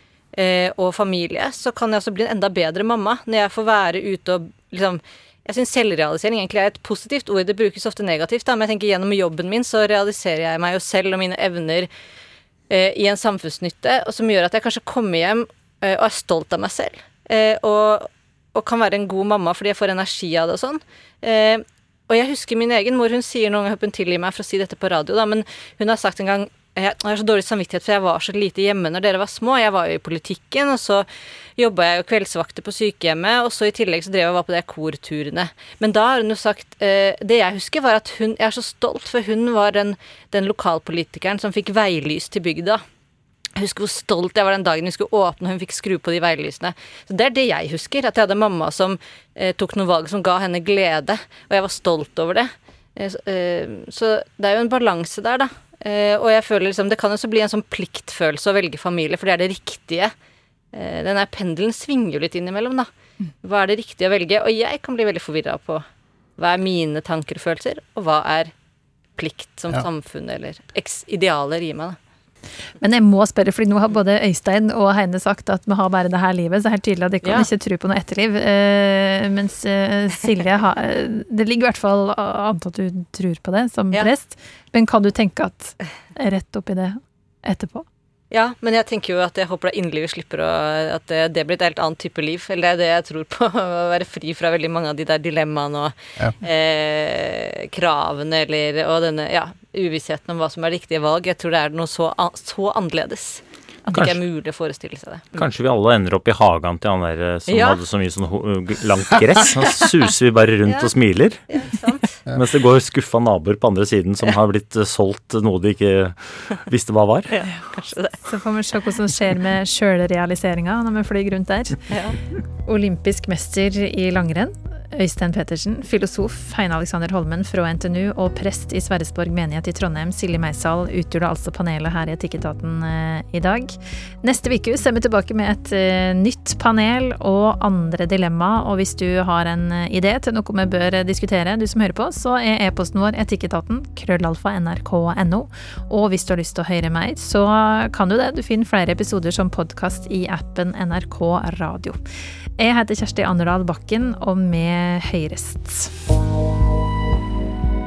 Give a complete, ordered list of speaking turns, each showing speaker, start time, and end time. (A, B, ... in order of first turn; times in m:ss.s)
0:00.3-0:11.9 A
0:12.7-0:42.8 A
0:43.6-1:00.1 A
1:00.7-1:02.9 A
1:03.4-1:05.8 A
1:06.4-1:08.5 A
1:09.2-1:12.0 A
1:12.8-1:27.9 B
1:17.2-1:17.5 A
1:28.3-1:45.4 A
1:43.9-1:44.2 C
1:45.4-1:51.4 C
1:47.5-1:47.8 A
1:51.5-1:52.2 A
1:52.3-1:57.3 C
1:57.3-1:58.3 A
1:58.3-2:01.9 B
2:01.9-2:02.2 A
2:02.6-2:32.0 B
2:32.6-2:35.9 B